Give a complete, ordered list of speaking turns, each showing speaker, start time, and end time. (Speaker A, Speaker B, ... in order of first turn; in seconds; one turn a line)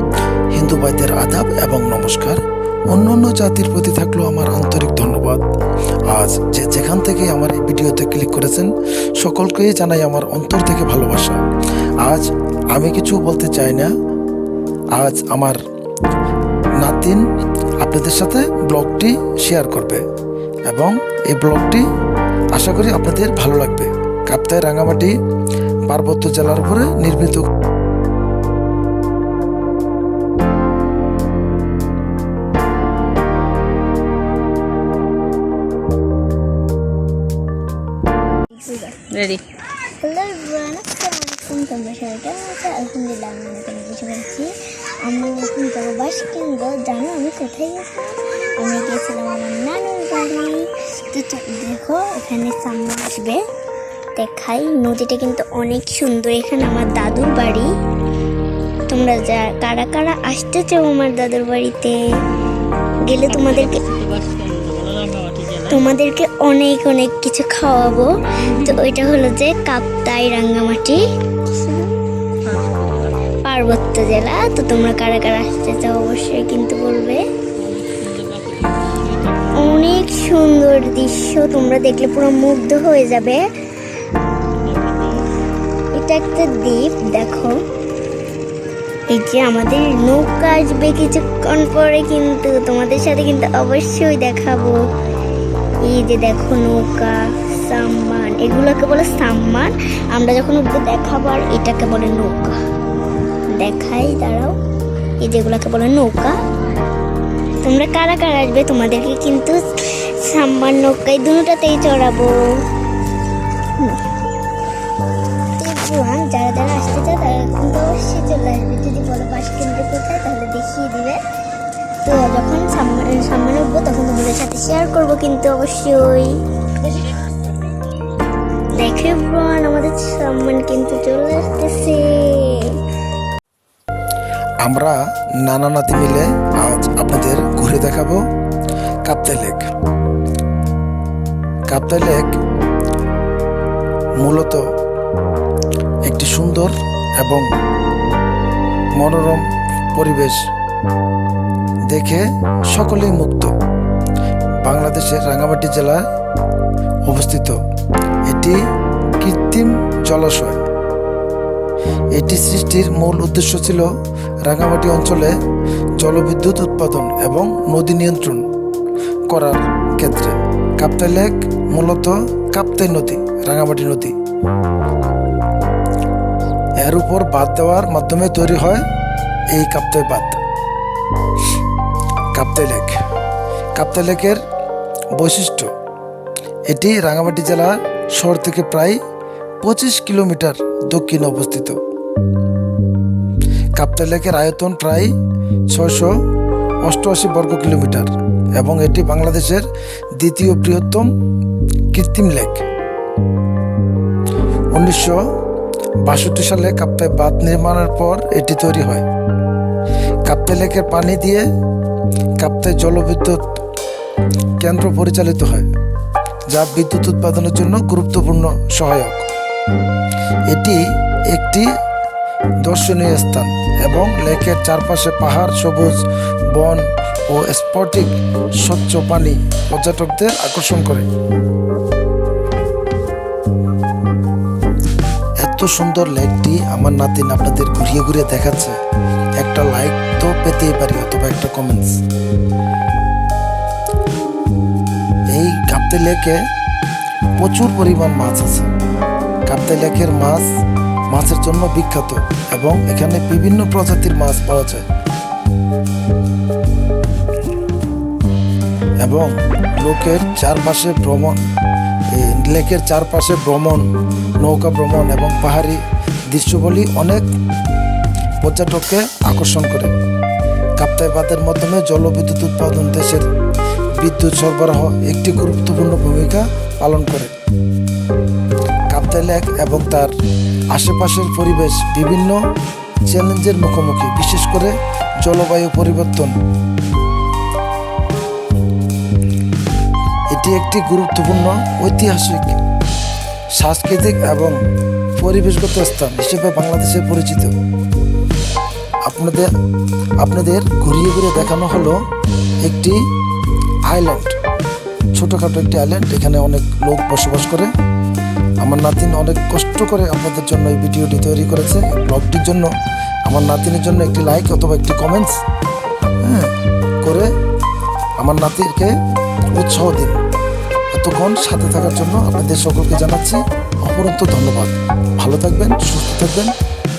Speaker A: 0.5-2.4
Speaker A: 2.9-5.4
Speaker A: 6.1-11.4
Speaker A: 12.0-13.9
Speaker A: 15.0-15.6
Speaker A: 16.8-17.3
Speaker A: 17.8-20.0
Speaker A: 20.7-21.9
Speaker A: 22.5-25.1
Speaker A: 25.9-27.5
Speaker B: 38.5-39.1
Speaker C: 39.1-39.4
Speaker B: 40.0-44.5
Speaker B: 45.0-53.4
Speaker B: 54.2-57.7
Speaker B: 58.9-62.0
Speaker B: 63.0-63.8
Speaker C: 63.3-65.8
Speaker B: 65.7-71.9
Speaker C: 68.4-68.8
Speaker C: 72.4-73.3
Speaker B: 73.4-77.3
Speaker C: 77.6-79.8
Speaker B: 79.5-83.4
Speaker C: 84.6-85.2
Speaker B: 85.9-87.6
Speaker B: 89.1-94.8
Speaker B: 95.8-102.6
Speaker B: 103.5-104.5
Speaker B: 105.2-106.4
Speaker B: 107.6-112.7
Speaker B: 113.7-114.0
Speaker B: 115.6-121.2
Speaker B: 122.0-127.1
Speaker B: 128.8-132.8
Speaker A: 134.6-138.2
Speaker A: 139.1-139.7
Speaker A: 141.7-142.4
Speaker A: 144.2-144.7
Speaker A: 146.1-147.5
Speaker A: 149.0-150.4
Speaker A: 151.9-153.5
Speaker A: 154.7-156.0
Speaker A: 157.1-157.6
Speaker A: 158.3-158.6
Speaker A: 159.2-160.6
Speaker A: 162.2-163.9
Speaker A: 164.5-165.4
Speaker A: 166.0-168.5
Speaker A: 169.3-174.2
Speaker A: 176.8-178.8
Speaker A: 179.6-180.4
Speaker A: 182.3-183.0
Speaker A: 183.8-184.4
Speaker A: 185.1-185.7
Speaker A: 186.7-189.0
Speaker A: 189.6-191.8
Speaker A: 193.8-195.1
Speaker A: 195.7-196.1
Speaker A: 196.8-201.1
Speaker A: 201.9-202.6
Speaker A: 204.7-205.2
Speaker A: 206.1-209.1
Speaker A: 210.3-211.5
Speaker A: 212.4-213.4
Speaker A: 214.6-215.7
Speaker A: 216.5-219.3
Speaker A: 220.5-220.8
Speaker A: 221.3-221.7
Speaker A: 222.6-226.0
Speaker A: 226.6-228.1
Speaker A: 228.6-231.1
Speaker A: 235.4-238.8
Speaker A: 239.4-242.0
Speaker A: 245.3-246.4
Speaker A: 247.4-248.7
Speaker A: 249.5-250.5
Speaker A: 251.1-254.8
Speaker A: 259.0-261.4
Speaker A: 262.1-263.9
Speaker A: 264.4-267.3
Speaker A: 268.4-269.9
Speaker A: 270.8-273.3
Speaker A: 274.0-277.3
Speaker A: 278.9-280.1
Speaker A: 280.7-282.4
Speaker A: 283.1-286.3
Speaker A: 290.3-292.6
Speaker A: 293.6-294.6
Speaker A: 295.2-297.5
Speaker A: 299.1-299.5
Speaker A: 300.2-302.0
Speaker A: 302.6-303.0
Speaker A: 303.9-304.4
Speaker A: 305.2-307.7
Speaker A: 308.6-312.7
Speaker A: 313.3-315.4
Speaker A: 316.2-316.5
Speaker A: 317.0-317.3
Speaker A: 318.2-318.9
Speaker A: 319.5-320.2
Speaker A: 320.9-326.5